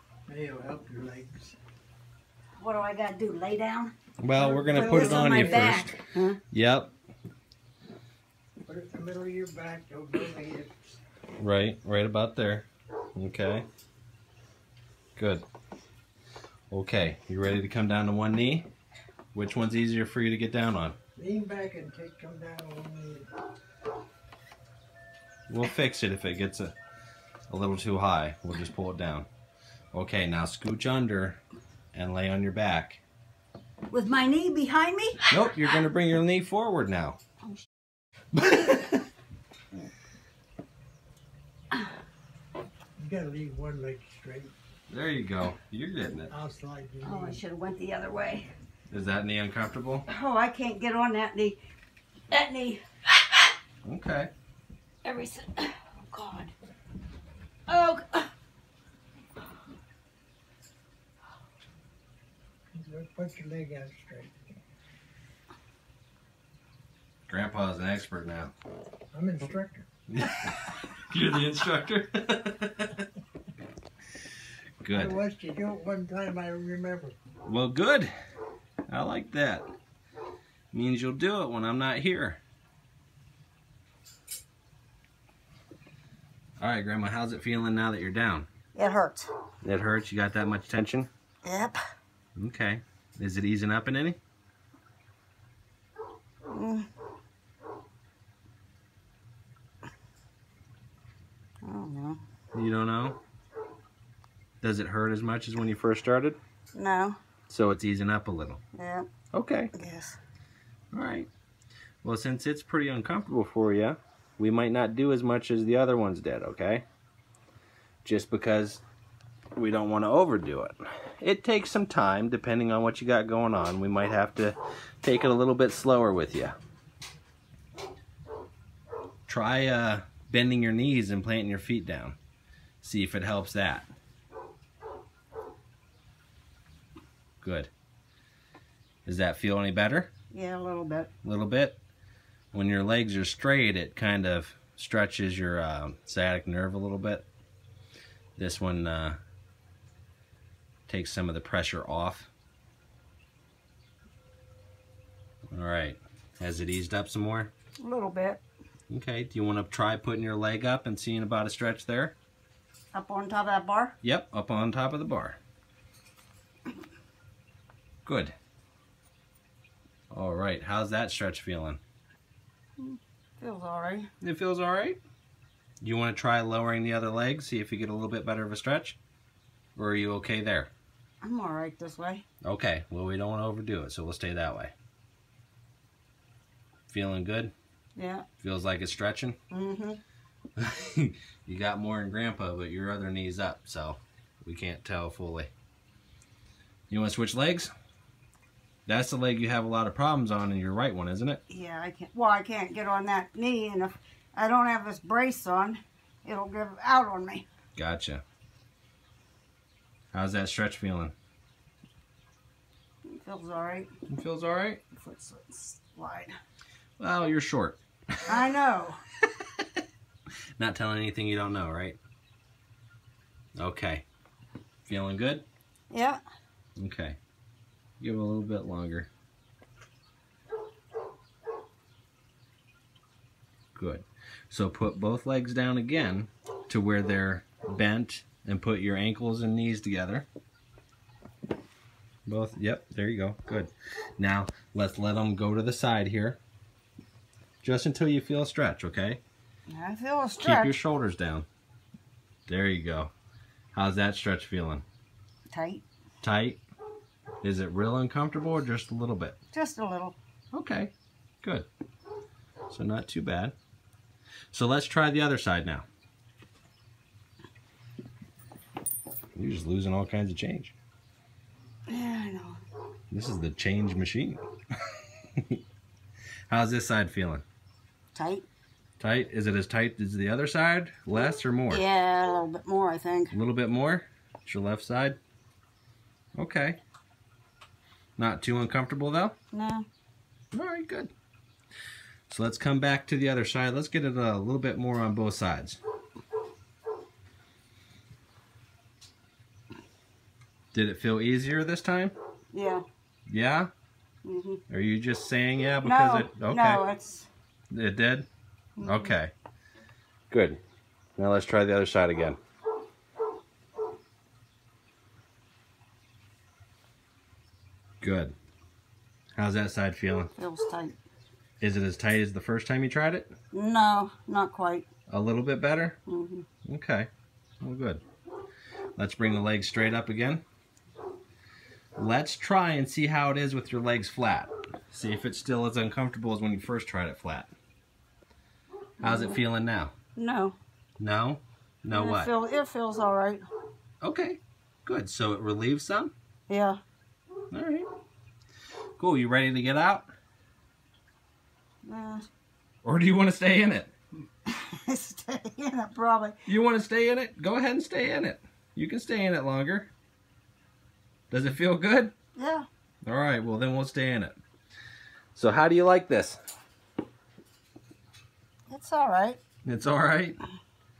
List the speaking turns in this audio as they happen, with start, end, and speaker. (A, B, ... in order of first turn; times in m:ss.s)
0:00.3-0:01.6 A
0:02.6-0:03.9 B
0:04.2-0:06.0 C
0:04.4-0:05.8 A
0:04.7-0:06.4 B
0:06.5-0:06.9 C
0:08.7-0:11.0 A
0:11.4-0:13.6 C
0:15.2-0:15.4 C
0:16.7-0:18.7 C
0:19.3-0:21.0 C
0:21.2-0:23.3 A
0:25.5-0:26.7 C
0:27.5-0:29.3 C
0:29.9-0:31.4 C
0:31.9-0:33.0 C
0:33.9-0:35.3 B
0:35.3-0:37.2 C
0:38.3-0:39.0 C
0:43.0-0:44.5 A
0:44.9-0:46.3 C
0:46.3-0:47.4 A
0:47.0-0:48.5 B
0:48.9-0:50.1 C
0:50.1-0:51.6 B
0:52.3-0:53.4 B
0:53.8-0:54.3 C
0:55.0-0:56.5 B
0:57.7-0:58.3 B
1:02.7-1:04.3 A
1:07.3-1:08.5 C
1:09.1-1:09.8 A
1:10.1-1:13.0 C
1:14.8-1:15.2 C
1:14.9-1:17.2 A
1:17.4-1:18.1 C
1:18.9-1:19.6 C
1:20.7-1:22.4 C
1:26.6-1:28.5 C
1:28.7-1:29.3 B
1:29.6-1:31.1 C
1:31.4-1:31.8 B
1:32.4-1:34.2 C
1:36.5-1:36.8 B
1:41.6-1:42.2 B
1:42.5-1:43.2 C
1:44.6-1:46.4 C
1:46.7-1:47.2 B
1:47.5-1:48.6 C
1:48.8-1:49.0 B
1:49.3-1:49.7 C
1:49.7-1:50.2 B
1:50.9-1:51.3 C
1:52.0-1:56.8 C
1:58.0-1:58.8 C
1:59.6-2:06.6 C
2:09.3-2:12.2 C
2:12.8-2:13.9 C
2:17.4-2:17.7 C
2:19.0-2:20.1 C
2:20.3-2:21.1 B
2:21.2-2:21.8 C
2:22.5-2:27.2 C
2:28.4-2:29.2 C
2:30.9-2:32.3 C
2:35.5-2:37.5 C
2:37.8-2:38.4 B
2:38.9-2:42.1 C
2:42.9-2:43.9 B
2:44.0-2:45.4 C
2:48.0-2:48.3 C
2:50.1-2:51.8 C
2:52.8-2:54.1 B
2:54.2-2:55.0 C
2:55.8-2:59.0 C
2:59.8-3:00.7 C
3:01.2-3:02.2 B
3:02.4-3:04.7 C
3:06.9-3:07.5 C
3:08.0-3:08.2 B
3:08.4-3:09.4 C
3:09.5-3:10.0 B
3:10.6-3:15.5 C
3:16.9-3:17.7 C
3:18.8-3:21.4 C
3:21.5-3:27.5 B
3:27.8-3:28.2 C
3:30.1-3:31.1 C
3:33.1-3:33.9 B
3:34.1-3:34.8 C
3:35.0-3:36.3 B
3:37.0-3:38.4 C
3:38.3-3:39.0 B
3:40.6-3:42.0 C
3:43.6-3:44.0 C
3:44.8-3:45.4 C
3:45.9-3:46.2 B
3:46.8-3:47.2 C
3:48.0-3:49.1 C
3:53.7-4:00.3 C
4:02.2-4:06.4 C
4:07.6-4:09.2 C
4:09.7-4:10.7 B
4:10.4-4:11.4 C
4:12.5-4:13.1 C
4:13.7-4:14.8 C
4:15.5-4:15.8 B
4:16.2-4:16.6 C
4:17.4-4:19.4 C
4:19.5-4:20.2 B
4:20.5-4:21.7 C
4:22.7-4:23.5 C
4:24.5-4:25.8 C
4:29.4-4:30.7 C
4:31.9-4:32.6 B
4:33.1-4:34.4 C
4:34.9-4:35.6 C
4:36.5-4:37.4 C
4:38.1-4:38.4 B
4:39.0-4:41.8 C
4:41.7-4:43.3 B
4:43.3-4:45.2 C
4:46.4-4:46.8 C
4:48.2-4:49.3 C
4:49.5-4:49.8 B
4:50.5-4:51.1 C
4:52.3-4:55.8 C
5:00.7-5:02.1 C
5:02.5-5:02.8 B
5:03.3-5:03.7 C
5:04.2-5:04.6 B
5:04.7-5:06.8 C
5:05.8-5:07.3 B
5:07.7-5:08.3 C
5:08.8-5:09.1 B
5:08.8-5:09.3 C
5:10.3-5:10.6 C
5:11.2-5:12.4 C
5:18.0-5:18.3 C
5:19.4-5:20.3 C
5:20.4-5:21.0 B
5:21.6-5:23.3 C
5:23.5-5:24.9 B
5:25.1-5:26.0 C
5:26.1-5:26.5 B
5:26.6-5:27.1 C
5:27.6-5:28.0 C
5:29.0-5:30.4 C
5:32.0-5:37.5 C
5:39.0-5:39.4 B
5:39.0-5:39.9 C
5:40.1-5:40.6 B
5:41.0-5:42.3 C
5:41.9-5:43.4 B
5:44.0-5:46.1 C
5:46.5-5:46.8 B
5:47.5-5:47.9 C
5:49.0-5:50.1 C
5:51.8-5:52.2 B
5:52.8-5:53.9 C
5:54.5-5:56.4 B
5:56.4-5:59.9 C
6:01.3-6:02.1 C
6:02.4-6:02.6 B
6:03.0-6:04.4 C
6:05.3-6:06.4 C
6:08.7-6:09.4 B
6:09.6-6:10.4 C